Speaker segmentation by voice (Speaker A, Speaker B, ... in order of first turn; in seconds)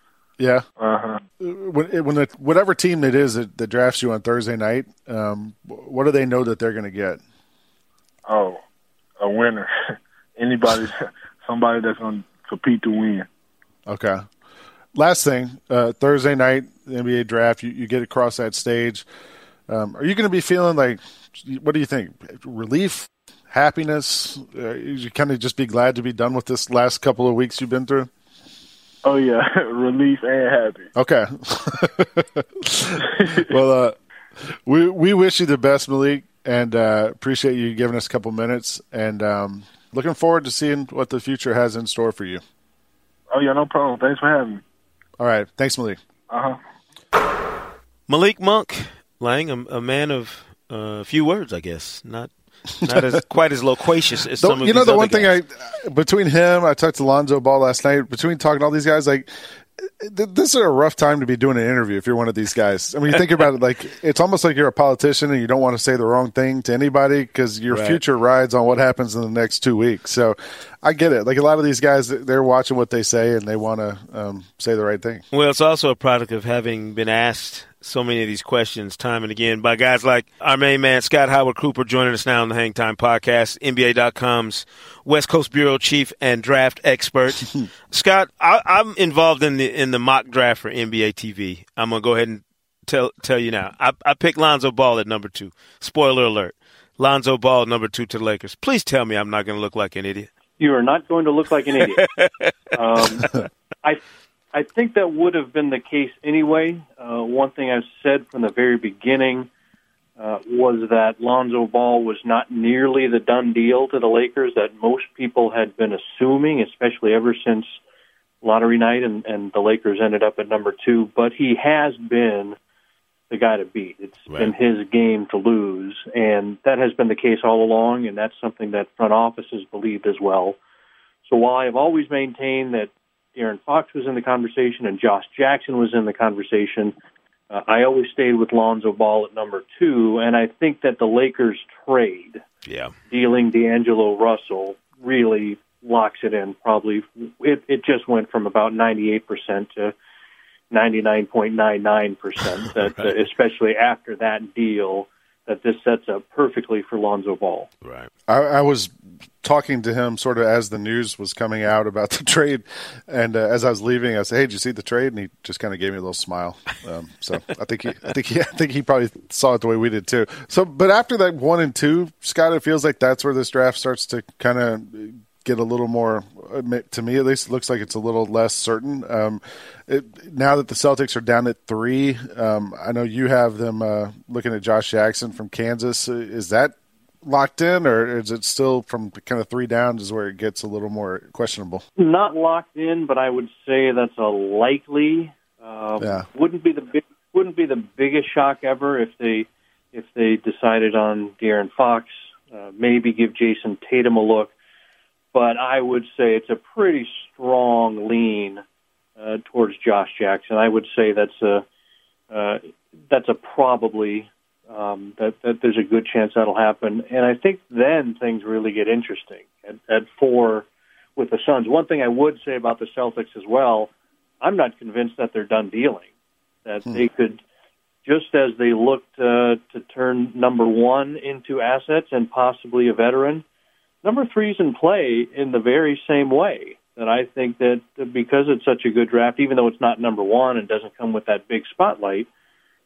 Speaker A: 0.4-0.6, 1.4-7.2, 13.9-14.2, 14.9-19.1, 19.7-28.1, 30.9-34.0, 34.6-42.4, 45.2-46.0, 52.8-53.1, 54.4-75.2, 158.3-191.8, 196.0-196.2
Speaker B: 0.8-1.2, 8.3-8.6, 9.2-9.7, 10.4-13.2, 29.0-30.9, 33.1-33.5, 43.3-44.6, 46.3-46.6
Speaker C: 48.1-52.3, 52.8-55.3, 67.7-68.0, 75.3-100.3, 101.8-103.3, 142.7-142.9, 152.8-153.1, 157.8-158.1
Speaker D: 100.6-102.0, 102.7-103.3, 104.5-109.5, 110.2-117.8, 118.4-122.5, 123.3-130.6, 131.2-136.9, 137.5-142.4, 143.1-149.9, 150.7-157.7, 192.0-204.5, 205.3-208.6, 209.2-211.6, 212.3-226.1, 226.6-227.4, 228.0-233.4, 234.0-242.3